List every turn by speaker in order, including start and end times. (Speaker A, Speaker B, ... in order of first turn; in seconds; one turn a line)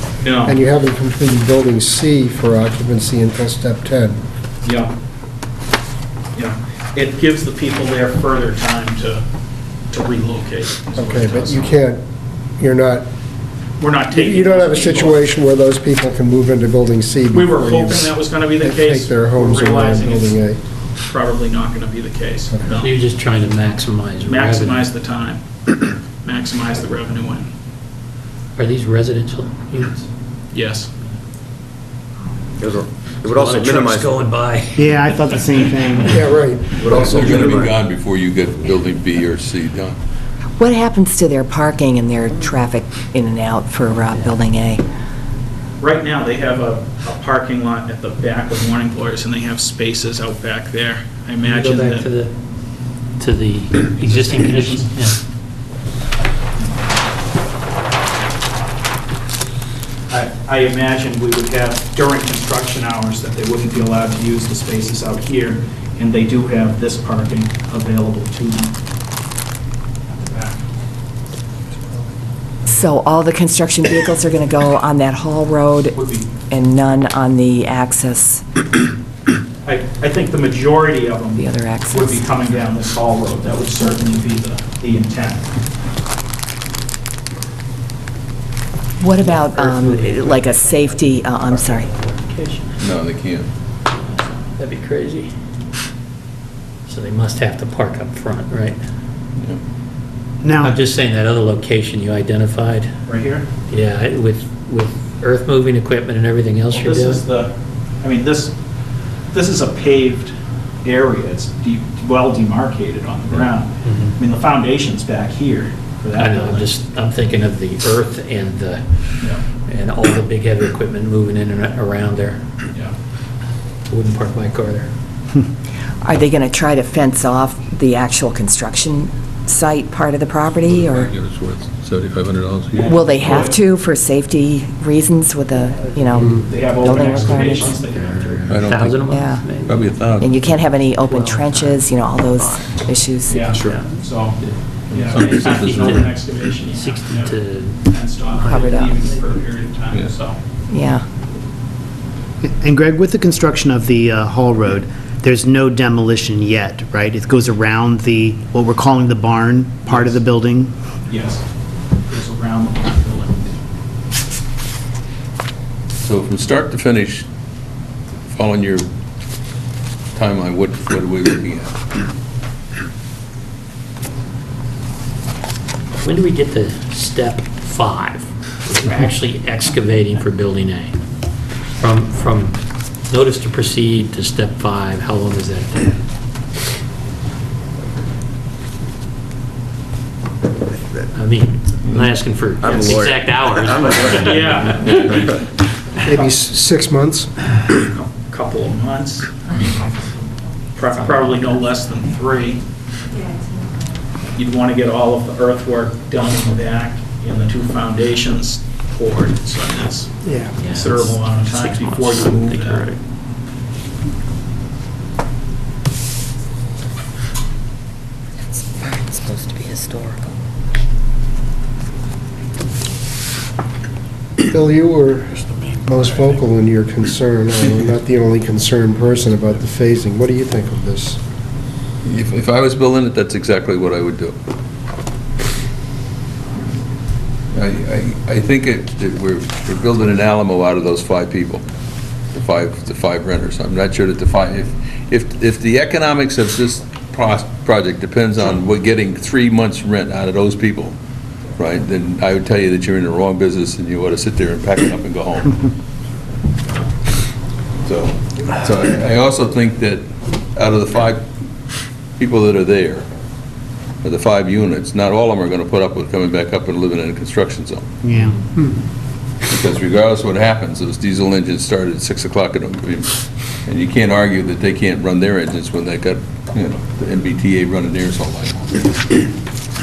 Speaker A: 0.2-0.6
Speaker B: 0.4-4.2
Speaker A: 4.6-4.9
Speaker A: 6.3-9.2
Speaker A: 9.9-11.7
Speaker B: 10.9-12.0
Speaker B: 12.6-13.1
Speaker A: 13.8-15.2
Speaker B: 14.1-20.6
Speaker A: 17.3-20.4
Speaker A: 21.1-22.9
Speaker C: 22.7-24.9
Speaker A: 24.3-27.5
Speaker C: 28.6-30.1
Speaker A: 30.5-30.9
Speaker D: 32.6-34.2
Speaker C: 33.2-35.0
Speaker E: 34.8-36.4
Speaker B: 36.1-37.6
Speaker D: 36.8-37.8
Speaker F: 36.9-40.0
Speaker G: 40.6-44.8
Speaker A: 45.8-52.1
Speaker C: 51.4-52.3
Speaker C: 53.2-55.2
Speaker A: 54.0-54.9
Speaker A: 56.6-56.9
Speaker A: 60.1-68.7
Speaker A: 70.1-70.6
Speaker G: 72.7-76.0
Speaker A: 75.9-76.3
Speaker G: 76.5-78.4
Speaker A: 79.7-85.5
Speaker G: 81.4-82.2
Speaker G: 89.0-91.9
Speaker C: 89.2-92.8
Speaker F: 92.8-93.5
Speaker C: 93.9-95.3
Speaker C: 96.9-98.8
Speaker E: 100.4-100.8
Speaker C: 100.6-102.9
Speaker A: 103.1-103.5
Speaker C: 103.7-107.2
Speaker A: 106.7-107.5
Speaker A: 108.0-108.5
Speaker A: 109.3-110.3
Speaker A: 110.8-116.8
Speaker C: 113.8-114.1
Speaker C: 116.2-122.5
Speaker C: 123.9-124.9
Speaker G: 126.0-131.1
Speaker F: 130.6-132.9
Speaker A: 132.7-133.6
Speaker G: 132.9-137.8
Speaker A: 136.2-138.7
Speaker C: 136.9-139.8
Speaker F: 138.5-140.5
Speaker G: 139.1-139.5
Speaker G: 140.2-143.5
Speaker C: 141.1-142.7
Speaker A: 143.3-144.4
Speaker C: 143.5-147.8
Speaker A: 144.9-150.4
Speaker F: 145.1-146.0
Speaker C: 148.3-149.1
Speaker G: 148.5-149.0
Speaker G: 150.7-151.1
Speaker E: 152.4-160.7
Speaker A: 159.9-160.1
Speaker A: 161.1-161.4
Speaker A: 162.1-163.6
Speaker F: 166.0-167.3
Speaker F: 168.3-168.9
Speaker F: 170.2-171.8
Speaker C: 176.0-180.9
Speaker C: 181.8-185.9
Speaker C: 191.1-195.3
Speaker D: 192.7-193.0
Speaker F: 192.7-193.1
Speaker D: 193.7-194.4
Speaker A: 194.1-195.2
Speaker B: 196.0-197.3
Speaker A: 197.7-199.9
Speaker A: 200.8-202.6
Speaker A: 204.3-212.9
Speaker B: 210.2-210.5
Speaker C: 210.6-213.0
Speaker G: 218.7-220.3
Speaker B: 224.5-231.2
Speaker F: 232.1-234.4
Speaker F: 237.5-241.6
Speaker F: 242.3-251.0
Speaker F: 251.6-255.6
Speaker F: 257.8-261.3
Speaker F: 262.2-263.1
Speaker F: 264.0-267.9
Speaker E: 268.0-268.5
Speaker F: 269.5-278.9